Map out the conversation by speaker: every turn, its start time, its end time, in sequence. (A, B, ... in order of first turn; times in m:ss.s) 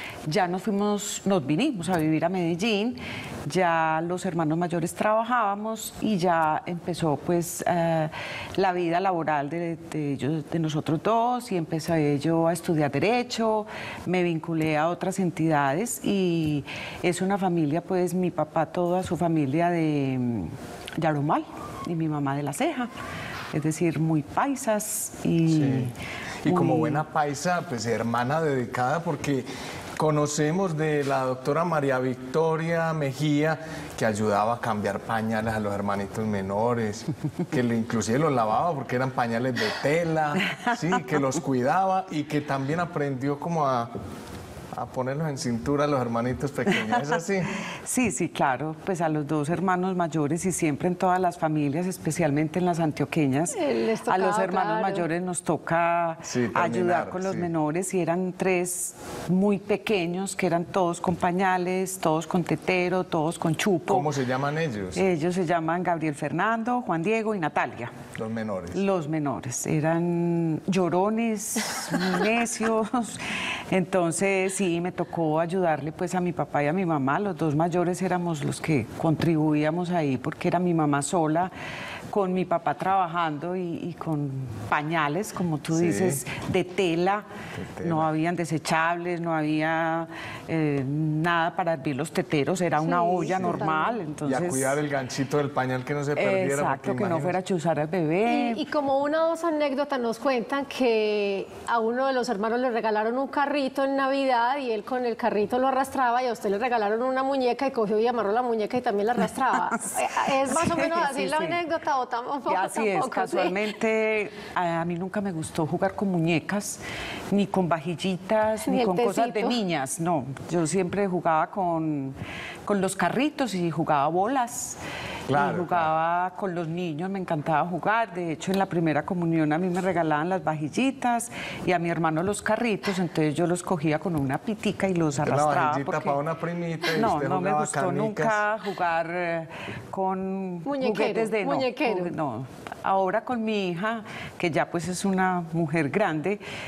0:00.2-0:22.9 A
0:23.5-0:25.9 A
0:25.5-0:25.9 B
0:26.4-0:43.9 B
0:26.4-0:27.0 A
0:44.7-0:47.5 B
0:47.7-1:04.1 A
0:53.5-0:55.0 C
0:56.2-0:57.5 B
1:03.9-1:05.0 B
1:04.9-1:08.0 A
1:08.2-1:08.8 B
1:08.7-1:21.5 A
1:22.1-1:27.3 A
1:25.7-1:26.2 B
1:27.5-1:28.1 B
1:27.8-1:34.8 A
1:32.9-1:33.9 C
1:33.3-1:33.6 B
1:34.2-1:37.3 B
1:36.2-1:38.6 A
1:38.2-1:53.6 C
1:50.4-1:51.6 A
1:52.5-2:16.2 A
1:58.7-1:59.6 C
2:05.3-2:05.9 B
2:15.2-2:18.4 B
2:16.9-2:26.4 A
2:20.6-2:22.1 C